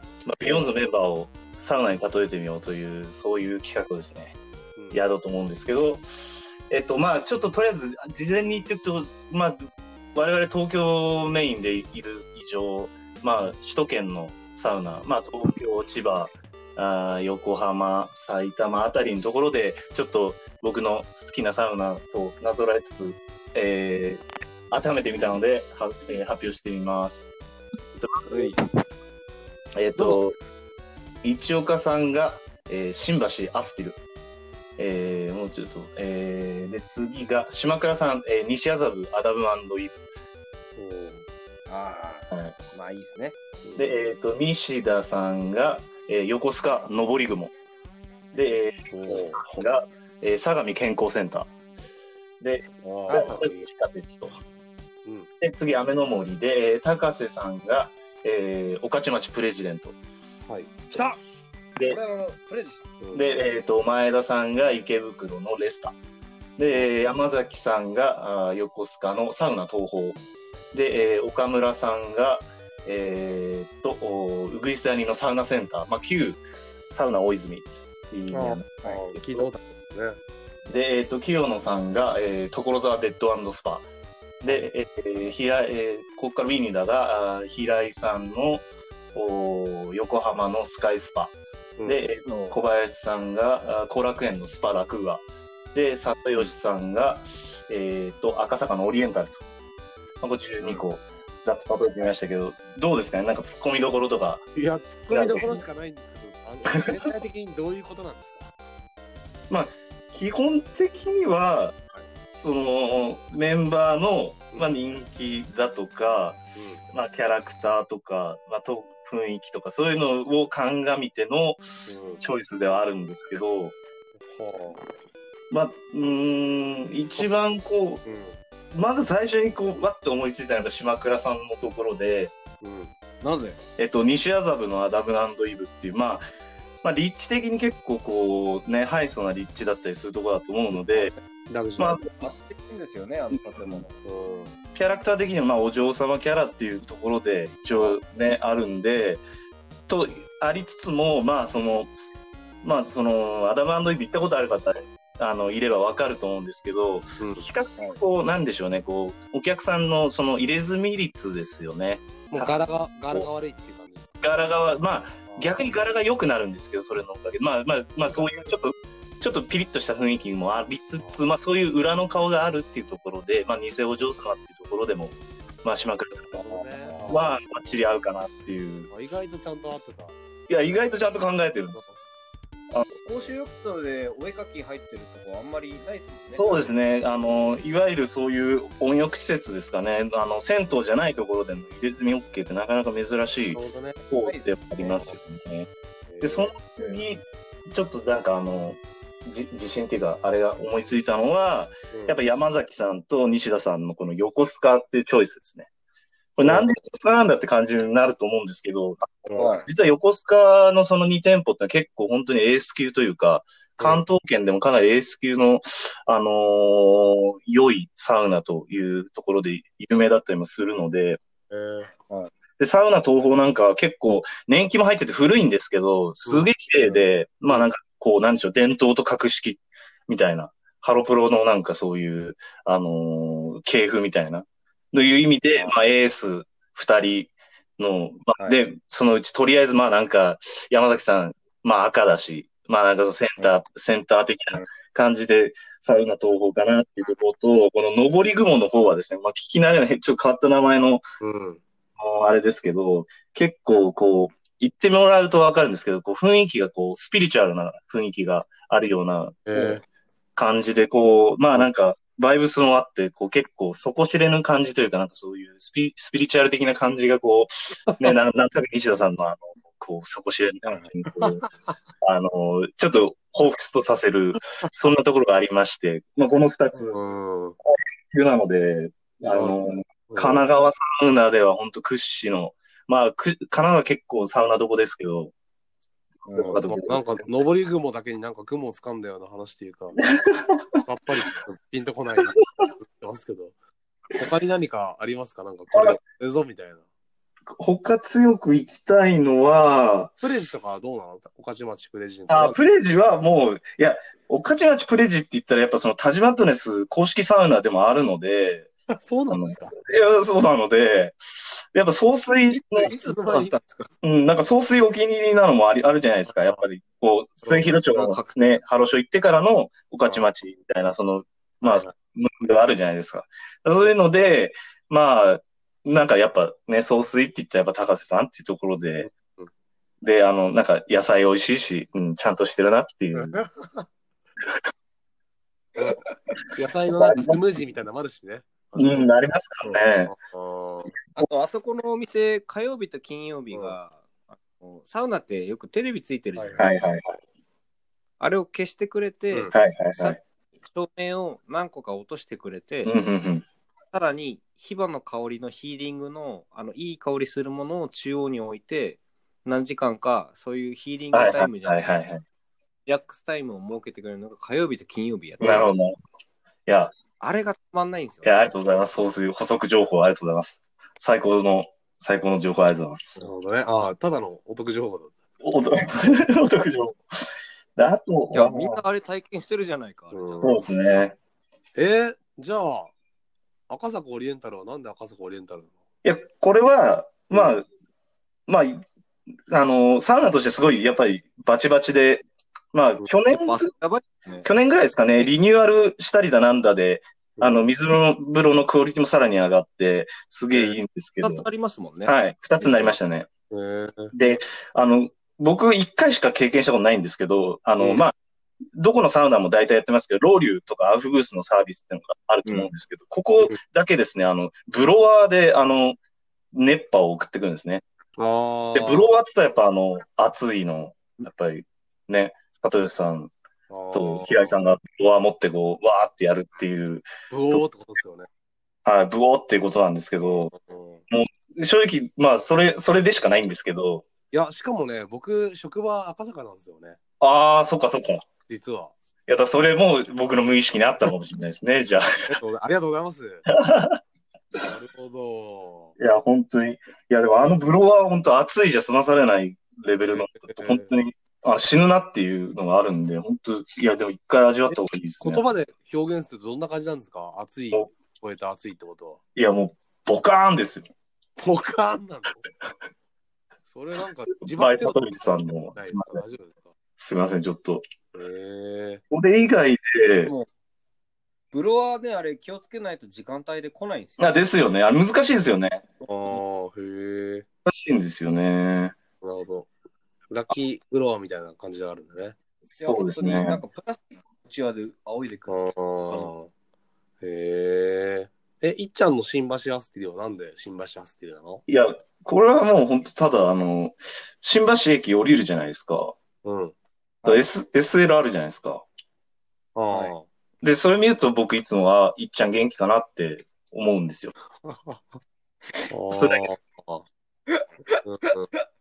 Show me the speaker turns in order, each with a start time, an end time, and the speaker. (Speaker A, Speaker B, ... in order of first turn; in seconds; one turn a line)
Speaker A: 0.2-4.4
Speaker B: 4.8-5.0
Speaker A: 4.9-27.3
Speaker A: 28.0-28.5
Speaker C: 28.3-28.6
Speaker A: 29.8-30.4
Speaker A: 31.2-34.0
Speaker A: 34.8-40.0
Speaker B: 40.8-41.2
Speaker C: 41.7-43.4
Speaker A: 42.3-42.6
Speaker B: 43.6-43.9
Speaker A: 43.8-47.5
Speaker A: 48.3-51.5
Speaker B: 48.9-49.4
Speaker A: 52.4-54.4
Speaker B: 52.6-53.6
Speaker C: 53.1-53.4
Speaker B: 55.0-55.3
Speaker A: 55.4-60.0
Speaker B: 60.4-60.8
Speaker A: 60.9-61.2
Speaker C: 61.9-62.9
Speaker B: 63.0-63.4
Speaker A: 63.1-66.0
Speaker A: 66.6-70.2
Speaker A: 70.7-79.5
Speaker B: 78.3-80.2
Speaker A: 80.7-83.9
Speaker A: 84.4-91.3
Speaker B: 91.8-92.0
Speaker A: 91.8-99.4
Speaker C: 92.3-92.6
Speaker A: 100.2-104.4
Speaker B: 104.5-108.5
Speaker A: 105.1-105.6
Speaker A: 106.7-106.9
Speaker A: 109.5-123.8
Speaker B: 116.5-116.8
Speaker B: 121.9-122.2
Speaker B: 124.1-124.9
Speaker A: 125.5-128.0
Speaker B: 128.0-128.4
Speaker A: 128.7-132.3
Speaker B: 132.6-132.9
Speaker C: 133.2-133.6
Speaker A: 133.8-136.2
Speaker A: 136.8-141.1
Speaker B: 140.8-142.0
Speaker A: 141.8-142.3
Speaker C: 142.2-144.0
Speaker A: 143.3-143.8
Speaker B: 144.0-144.6
Speaker A: 144.8-149.2
Speaker A: 149.9-151.9
Speaker A: 152.6-163.3
Speaker B: 157.2-157.5
Speaker B: 162.3-164.2
Speaker A: 164.2-176.5
Speaker B: 165.3-165.9
Speaker B: 168.1-168.6
Speaker B: 170.9-171.3
Speaker B: 176.4-177.8
Speaker C: 176.8-177.2
Speaker A: 177.1-178.9
Speaker B: 178.9-180.2
Speaker A: 180.5-181.9
Speaker B: 181.7-182.0
Speaker C: 183.0-186.5
Speaker A: 186.3-195.7
Speaker B: 193.5-194.0
Speaker C: 194.2-195.0
Speaker B: 194.9-195.1
Speaker B: 196.1-196.8
Speaker A: 196.2-205.7
Speaker B: 201.9-202.2
Speaker A: 206.4-221.2
Speaker B: 206.4-206.7
Speaker B: 209.3-209.7
Speaker C: 209.4-209.7
Speaker B: 213.8-214.1
Speaker B: 221.5-221.9
Speaker A: 222.6-251.0
Speaker B: 226.2-227.6
Speaker B: 251.2-251.6
Speaker A: 252.0-259.8
Speaker B: 259.4-259.8
Speaker A: 260.4-271.4
Speaker B: 271.2-271.4
Speaker A: 272.0-277.0
Speaker B: 276.9-277.6
Speaker A: 277.7-285.3
Speaker B: 279.3-279.6
Speaker B: 280.1-280.4
Speaker C: 286.3-286.6
Speaker B: 286.4-290.1
Speaker A: 286.4-287.1
Speaker A: 290.0-290.8
Speaker B: 290.9-293.6
Speaker B: 294.1-296.9
Speaker A: 295.7-296.0
Speaker A: 297.6-300.2
Speaker B: 300.2-302.6
Speaker A: 302.3-308.7
Speaker B: 308.9-309.8
Speaker A: 309.3-312.9
Speaker B: 312.7-313.6
Speaker C: 312.8-313.9
Speaker A: 314.0-329.1
Speaker B: 317.5-317.7
Speaker C: 317.8-318.4
Speaker B: 321.6-321.9
Speaker B: 329.0-329.5
Speaker A: 330.0-333.4
Speaker B: 333.1-333.9
Speaker B: 336.6-340.9
Speaker A: 336.9-337.4
Speaker A: 338.8-340.1
Speaker C: 341.1-346.8
Speaker B: 346.4-346.7
Speaker A: 346.6-347.2
Speaker C: 348.2-352.9
Speaker A: 349.5-350.2
Speaker A: 352.9-353.5
Speaker C: 353.9-362.0
Speaker A: 361.1-362.2
Speaker C: 362.9-365.8
Speaker A: 365.4-366.0
Speaker B: 365.4-365.7
Speaker A: 366.7-366.9
Speaker C: 367.2-368.4
Speaker A: 368.2-373.1
Speaker B: 373.2-375.1
Speaker A: 375.4-377.2
Speaker A: 377.8-378.8
Speaker C: 378.3-380.6
Speaker B: 380.1-380.6
Speaker A: 380.4-381.2
Speaker B: 381.8-382.9
Speaker B: 383.7-385.8
Speaker A: 386.0-387.7
Speaker A: 388.5-388.9
Speaker A: 389.5-393.7
Speaker C: 393.3-394.5
Speaker A: 394.4-401.5
Speaker B: 397.4-397.7
Speaker C: 401.2-402.1
Speaker A: 402.0-403.3
Speaker B: 402.6-402.9
Speaker B: 403.5-404.1
Speaker A: 404.1-408.1
Speaker A: 408.8-416.0
Speaker C: 412.4-412.7
Speaker A: 416.5-417.8
Speaker B: 418.2-419.1
Speaker A: 418.7-423.3
Speaker B: 423.7-424.5
Speaker A: 423.9-427.7
Speaker B: 427.3-428.3
Speaker A: 428.9-430.5
Speaker B: 430.2-431.0
Speaker A: 431.1-434.1
Speaker B: 434.3-437.0
Speaker A: 437.2-438.2
Speaker B: 438.5-438.9
Speaker A: 439.3-442.1
Speaker B: 442.3-443.4
Speaker A: 443.5-444.0
Speaker B: 444.6-446.0
Speaker A: 446.0-455.4
Speaker B: 450.1-450.9
Speaker B: 454.7-459.2
Speaker A: 459.4-460.9
Speaker B: 461.4-462.4
Speaker B: 463.6-466.7
Speaker A: 464.5-466.2
Speaker A: 467.0-467.8
Speaker B: 468.1-469.0
Speaker A: 469.1-470.4
Speaker C: 471.5-474.4
Speaker A: 474.2-475.9
Speaker B: 476.0-477.5
Speaker A: 477.6-479.0
Speaker B: 479.2-479.7
Speaker B: 480.3-482.4
Speaker A: 482.6-483.6
Speaker C: 482.8-486.3
Speaker B: 485.5-486.5
Speaker B: 487.2-491.6
Speaker A: 491.7-496.1
Speaker B: 496.4-496.8
Speaker A: 497.2-498.9
Speaker B: 499.8-500.3
Speaker A: 500.6-504.3
Speaker B: 504.6-505.2
Speaker B: 505.9-507.1
Speaker A: 506.1-506.5
Speaker B: 508.0-508.5